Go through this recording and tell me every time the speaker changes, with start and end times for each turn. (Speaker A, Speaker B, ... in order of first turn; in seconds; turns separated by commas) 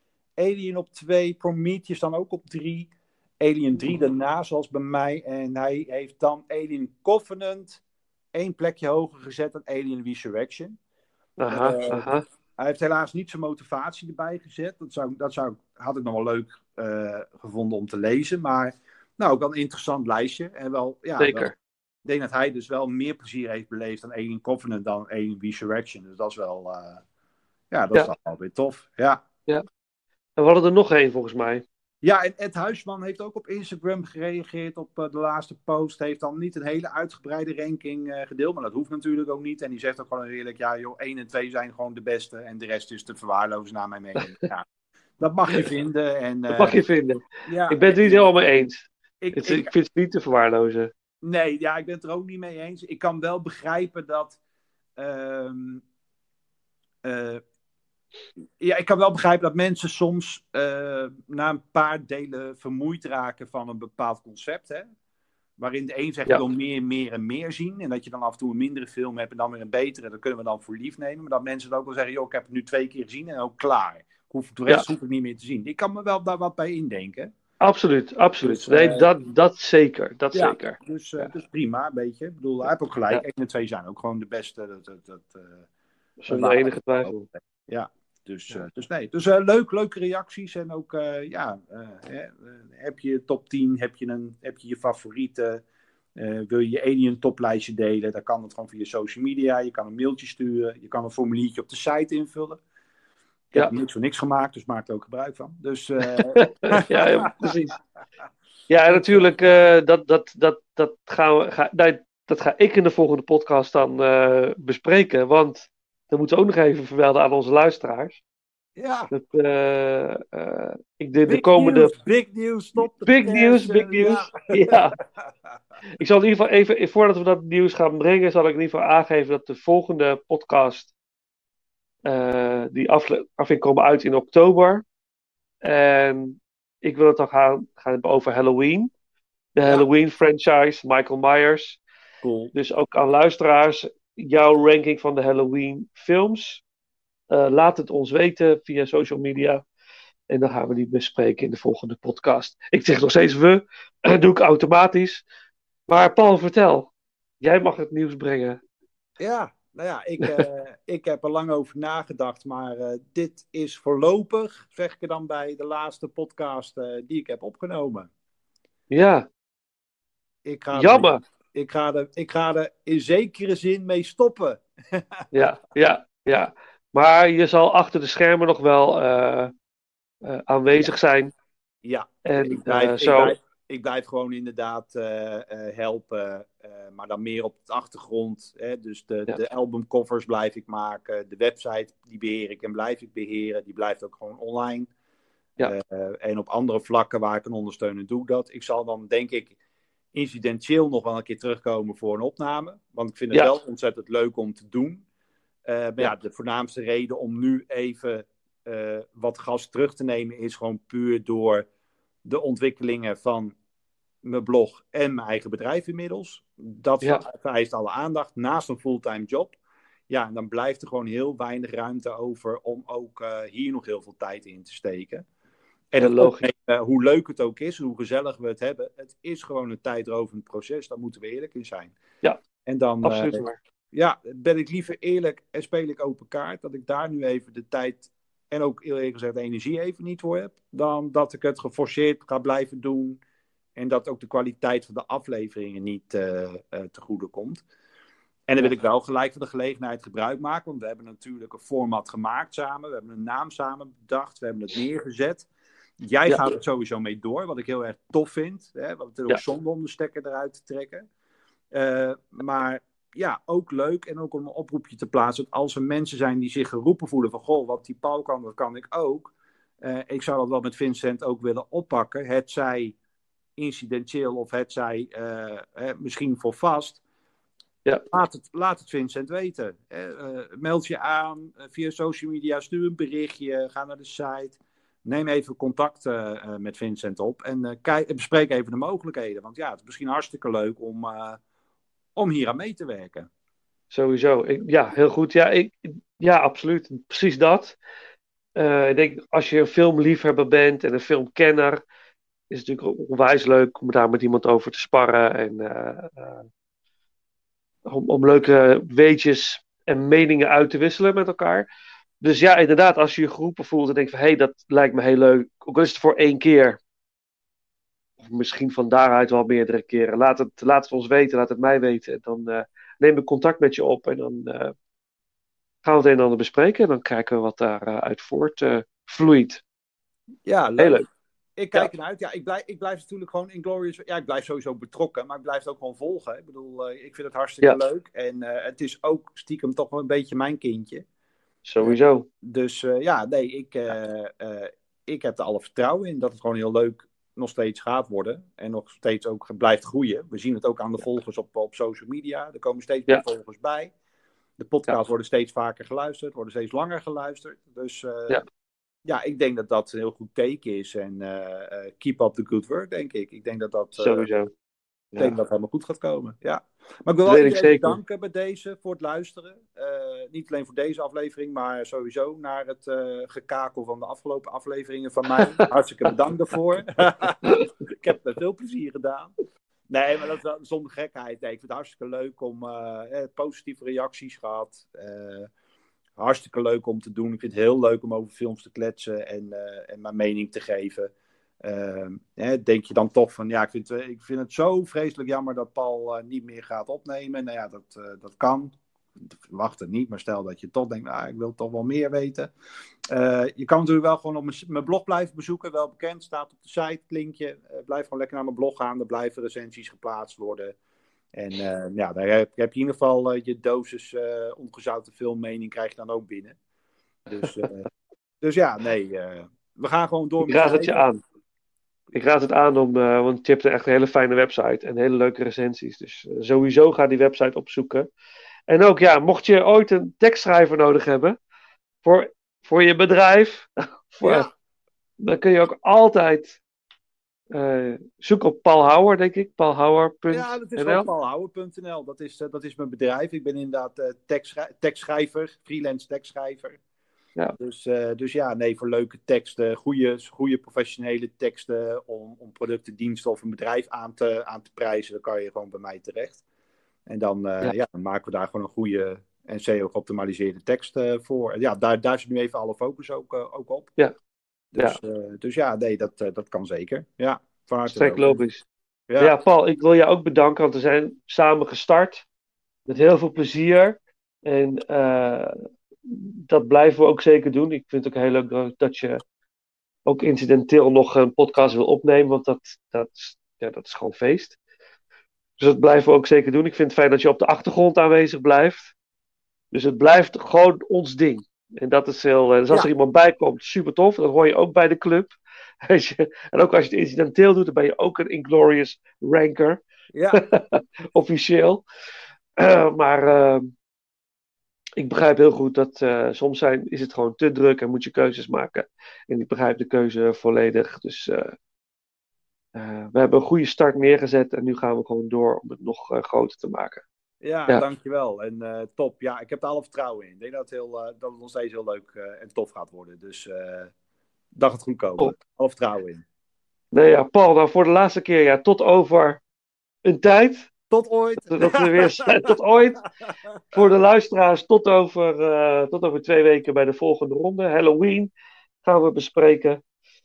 Speaker A: 0.4-7.8, Speaker A: 8.3-10.8, Speaker B: 11.4-12.2, Speaker A: 11.5-21.5, Speaker B: 21.2-21.5, Speaker A: 22.0-27.0, Speaker A: 27.7-29.2, Speaker B: 30.4-31.6, Speaker A: 32.0-44.6, Speaker A: 45.2-46.8, Speaker B: 46.5-50.9, Speaker A: 47.5-48.3, Speaker A: 49.2-49.7, Speaker A: 51.2-54.4, Speaker A: 55.0-55.8, Speaker A: 57.0-57.4, Speaker A: 58.6-64.9, Speaker A: 65.6-77.3, Speaker B: 77.6-81.3, Speaker A: 78.4-79.1, Speaker A: 80.3-85.7, Speaker B: 86.2-87.1, Speaker A: 86.3-95.6, Speaker A: 96.2-102.6, Speaker A: 103.5-107.5, Speaker B: 106.0-107.8, Speaker B: 108.7-118.2, Speaker A: 108.9-109.3, Speaker A: 118.8-119.1, Speaker B: 119.1-121.9, Speaker A: 121.2-125.3, Speaker B: 122.8-125.0, Speaker B: 126.0-130.9, Speaker B: 132.1-134.8, Speaker B: 135.6-138.9, Speaker B: 139.5-141.8, Speaker A: 142.2-142.5, Speaker B: 142.5-146.6, Speaker B: 147.3-149.6, Speaker B: 150.3-155.2, Speaker B: 155.9-158.6, Speaker A: 159.2-168.1, Speaker B: 168.9-169.3, Speaker A: 170.4-175.3, Speaker B: 170.7-171.2, Speaker B: 175.3-179.5, Speaker B: 180.2-181.3, Speaker A: 181.8-194.9, Speaker B: 182.2-183.3, Speaker A: 195.6-199.5, Speaker A: 200.1-205.0, Speaker A: 205.7-211.7, Speaker A: 212.2-213.5, Speaker A: 214.2-219.6, Speaker A: 220.1-225.2, Speaker A: 225.9-231.9, Speaker B: 226.0-226.5, Speaker A: 232.7-243.2, Speaker B: 233.0-233.6, Speaker A: 243.8-247.6, Speaker A: 248.5-255.5, Speaker A: 256.0-261.1, Speaker A: 261.7-272.9, Speaker A: 273.6-277.0, Speaker A: 278.1-291.4, Speaker A: 292.1-293.3, Speaker B: 293.9-297.8, Speaker B: 298.6-301.8, Speaker B: 302.5-306.5, Speaker B: 307.9-311.7, Speaker B: 312.2-316.8, Speaker B: 318.2-324.7, Speaker B: 325.8-329.6, Speaker A: 330.4-331.0, Speaker B: 330.8-331.1, Speaker A: 331.6-341.0, Speaker B: 341.6-342.2, Speaker A: 341.8-353.9, Speaker A: 354.6-358.4, Speaker A: 359.1-364.3, Speaker B: 363.9-364.5, Speaker A: 365.2-379.3, Speaker B: 367.2-368.0, Speaker B: 375.4-375.7, Speaker A: 379.9-385.5, Speaker A: 386.2-391.1, Speaker A: 391.6-402.5, Speaker A: 403.1-410.8, Speaker A: 411.3-416.6, Speaker A: 417.3-417.9, Speaker B: 417.4-417.7, Speaker A: 418.4-421.0, Speaker B: 420.4-421.2, Speaker B: 422.1-428.1, Speaker B: 428.7-431.4, Speaker B: 432.0-434.5, Speaker A: 434.2-434.5, Speaker B: 435.2-436.6, Speaker B: 437.5-441.1, Speaker A: 440.3-446.8, Speaker A: 447.6-456.4, Speaker A: 457.1-463.9, Speaker A: 464.7-468.4, Speaker B: 467.9-468.6, Speaker A: 469.1-469.4, Speaker B: 469.2-472.2, Speaker B: 472.9-479.2, Speaker B: 480.1-484.6, Speaker B: 485.6-488.9, Speaker B: 489.7-495.3, Speaker B: 495.9-499.8, Speaker A: 500.1-500.4, Speaker B: 500.3-501.8, Speaker B: 502.6-503.7, Speaker B: 505.0-511.5, Speaker B: 512.7-517.0, Speaker A: 517.4-523.9, Speaker A: 524.5-526.2, Speaker B: 526.9-529.4, Speaker B: 530.0-530.7, Speaker A: 530.9-532.1, Speaker B: 531.5-533.0, Speaker A: 533.5-533.8, Speaker B: 533.7-538.3, Speaker B: 538.8-539.8